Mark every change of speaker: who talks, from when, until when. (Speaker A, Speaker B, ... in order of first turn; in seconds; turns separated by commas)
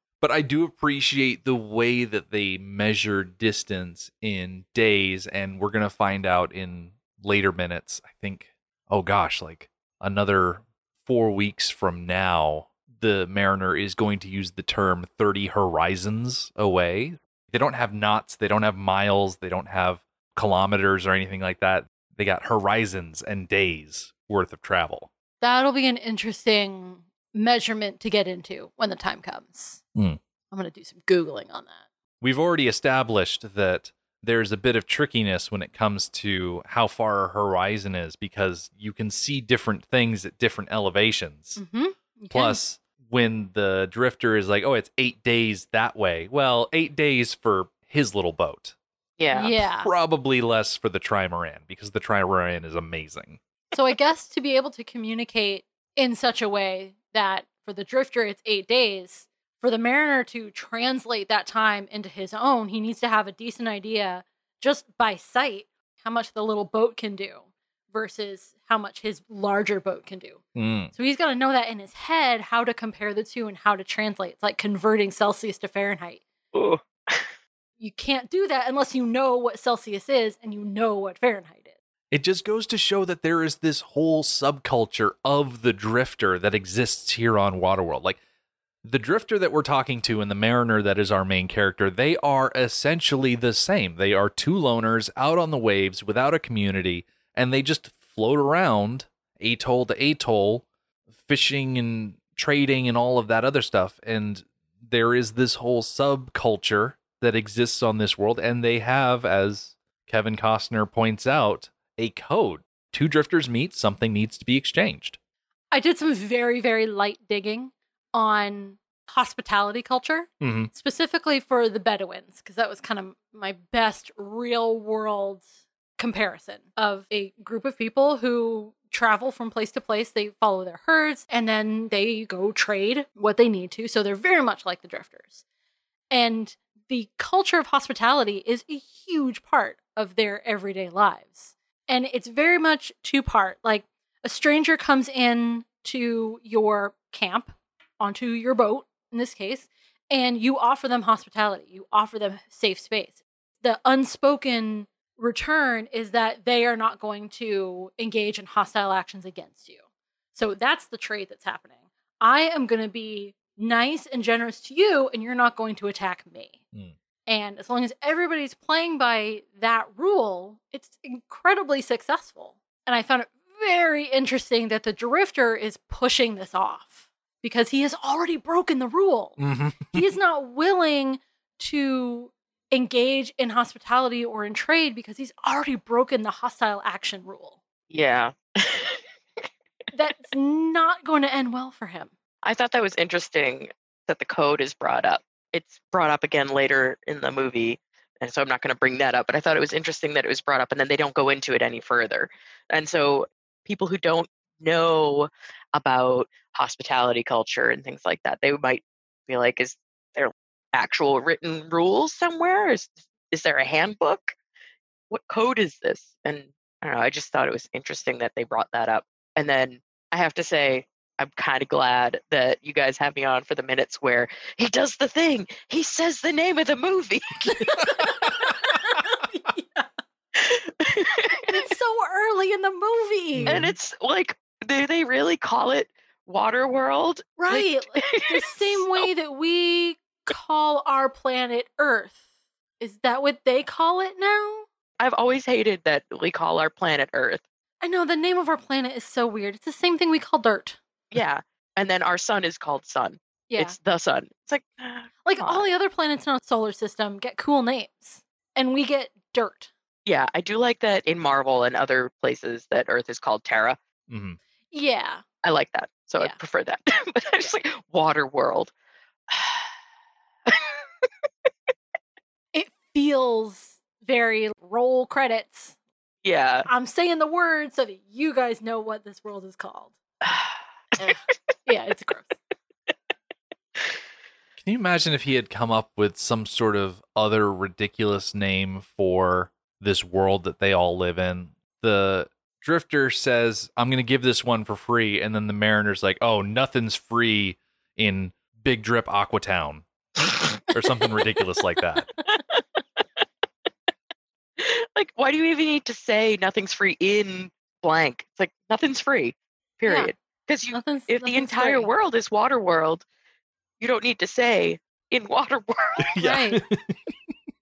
Speaker A: 0.2-25.1, Speaker B: 25.4-29.8, Speaker B: 30.5-31.8, Speaker A: 32.2-41.6, Speaker B: 41.6-42.6, Speaker A: 42.3-48.7, Speaker C: 49.2-49.5, Speaker B: 49.3-49.9, Speaker A: 49.5-53.4, Speaker B: 53.7-70.4, Speaker A: 70.5-70.9, Speaker B: 70.9-76.2, Speaker C: 76.5-77.3, Speaker B: 77.8-81.7, Speaker A: 82.1-88.2, Speaker A: 88.8-100.6, Speaker A: 101.2-115.2, Speaker B: 115.7-125.5, Speaker A: 120.4-120.7, Speaker B: 126.0-135.4, Speaker B: 136.1-159.8, Speaker B: 160.3-166.6, Speaker B: 167.2-179.4, Speaker A: 179.4-180.0, Speaker B: 179.9-187.6, Speaker C: 187.9-189.0, Speaker B: 189.9-192.1, Speaker C: 192.4-214.3, Speaker C: 215.1-227.4, Speaker B: 227.5-229.9, Speaker A: 227.6-228.8, Speaker C: 230.4-231.4, Speaker B: 231.4-233.6, Speaker A: 233.3-233.7, Speaker C: 233.5-239.0, Speaker B: 237.4-242.2, Speaker B: 242.8-244.7, Speaker C: 245.0-247.4, Speaker B: 247.8-250.8, Speaker C: 251.1-255.6, Speaker B: 253.5-253.8, Speaker B: 255.2-259.7, Speaker C: 260.1-263.8, Speaker A: 264.1-264.4, Speaker B: 264.7-265.2, Speaker C: 265.4-268.7, Speaker C: 269.3-269.7, Speaker C: 270.5-270.8, Speaker B: 272.5-275.7, Speaker C: 276.2-276.7, Speaker B: 276.7-279.9, Speaker C: 280.2-281.1, Speaker B: 281.0-282.3, Speaker A: 284.6-299.9, Speaker A: 300.7-302.1, Speaker C: 304.6-313.0, Speaker B: 309.9-310.1, Speaker B: 310.7-311.9, Speaker C: 313.8-316.2, Speaker A: 316.1-317.0, Speaker B: 316.2-316.6